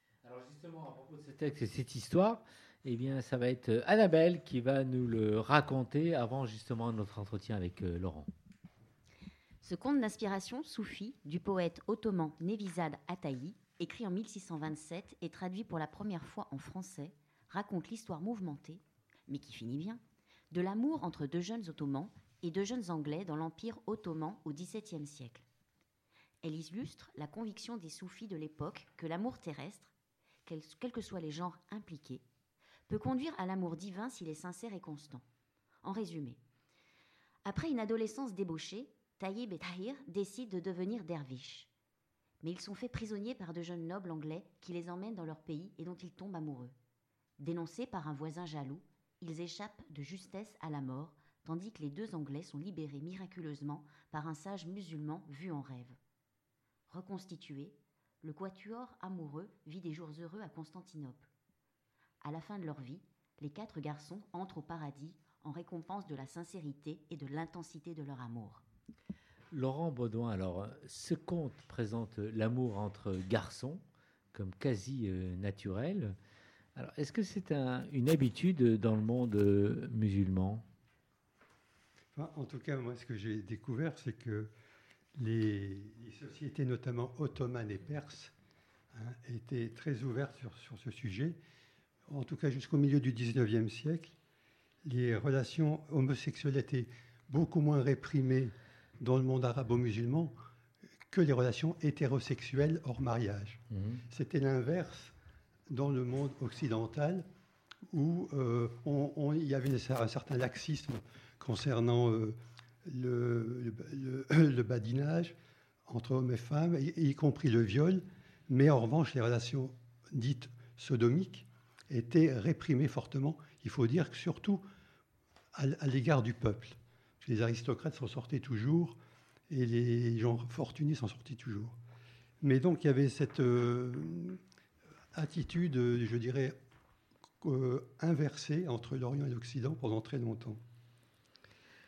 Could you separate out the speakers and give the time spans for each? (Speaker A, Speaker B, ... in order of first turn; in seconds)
Speaker A: 0.2-8.3, 69.5-76.2, 76.8-80.6, 103.7-104.0
Speaker B: 9.6-25.4, 26.4-29.9, 30.5-32.2, 32.9-35.2, 35.8-36.4, 37.5-41.7, 42.4-46.7, 47.4-56.0, 56.9-61.3, 62.2-68.6
Speaker C: 82.1-84.5, 85.2-88.3, 88.9-91.4, 92.1-94.1, 94.8-100.3, 101.1-105.1, 105.7-107.3, 107.9-115.3, 115.9-124.6, 125.5-129.0, 129.5-131.8, 132.4-134.4, 135.1-136.6, 137.4-140.6